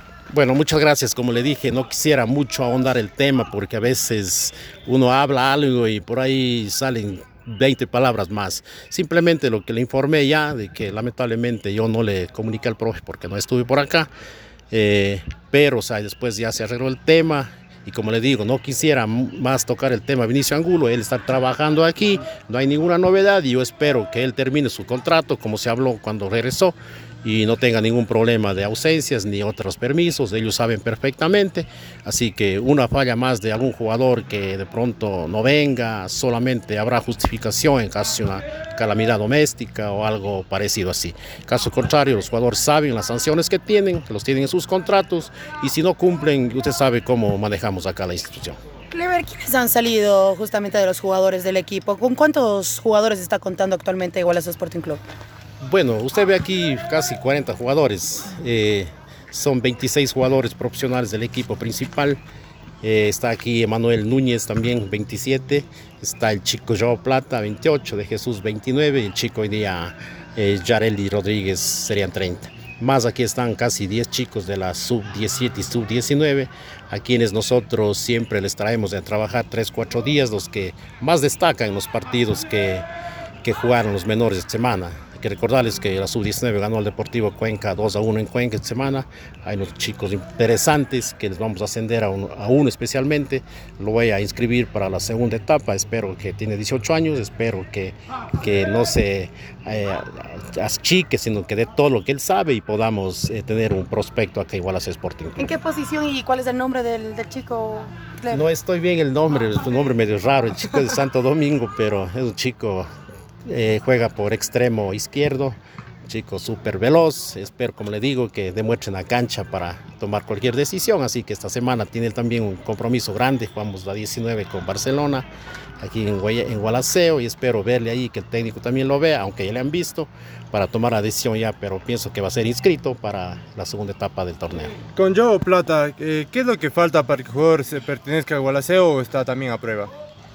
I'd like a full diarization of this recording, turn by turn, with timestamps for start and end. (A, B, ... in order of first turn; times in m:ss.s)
0:00.3-0:14.1 A
0:14.7-0:48.6 A
0:48.9-0:55.0 B
0:55.6-1:02.2 A
1:02.8-1:22.9 A
1:23.4-1:45.5 A
1:45.4-1:48.5 B
1:48.3-1:52.9 A
1:53.5-2:05.3 A
2:05.8-2:14.8 A
2:15.0-2:19.9 C